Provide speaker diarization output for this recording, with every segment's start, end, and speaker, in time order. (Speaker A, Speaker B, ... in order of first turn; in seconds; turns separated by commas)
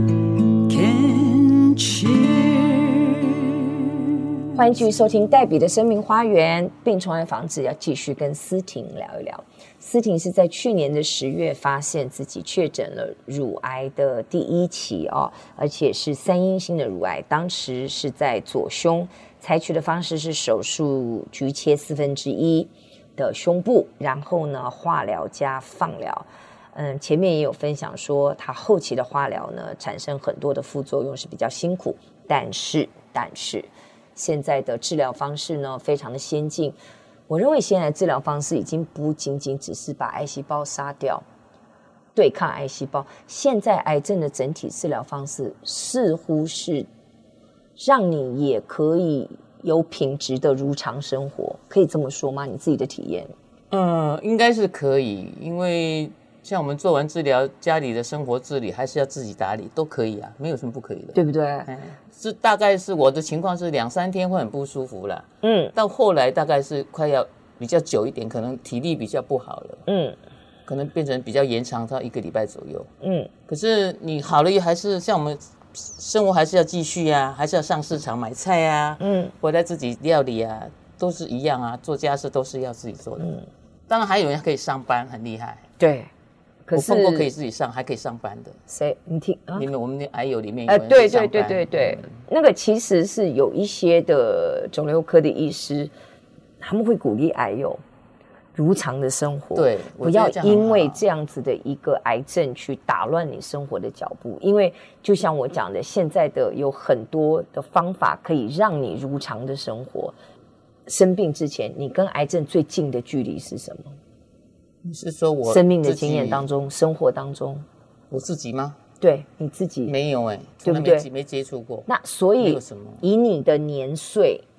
Speaker A: 0.7-1.0, Speaker B: 0.7-3.0, Speaker C: 4.5-36.8, Speaker C: 37.3-41.2, Speaker C: 42.1-46.9, Speaker C: 47.8-53.3, Speaker A: 53.7-69.8, Speaker C: 61.1-61.7, Speaker C: 65.4-65.7, Speaker C: 69.9-70.2, Speaker A: 70.7-72.9, Speaker C: 73.0-73.3, Speaker A: 73.5-83.3, Speaker C: 79.0-79.3, Speaker C: 83.2-83.5, Speaker A: 83.9-85.6, Speaker C: 85.8-86.1, Speaker C: 86.7-87.3, Speaker A: 86.7-88.6, Speaker C: 88.7-89.7, Speaker A: 89.6-92.1, Speaker C: 90.7-95.9, Speaker C: 96.6-97.8, Speaker C: 98.5-110.2, Speaker A: 99.5-101.0, Speaker C: 110.9-114.0, Speaker A: 114.8-116.5, Speaker C: 115.5-117.7, Speaker A: 118.1-118.8, Speaker C: 119.0-120.0, Speaker A: 119.9-121.9, Speaker C: 120.6-121.1, Speaker C: 121.9-124.5, Speaker A: 122.4-123.0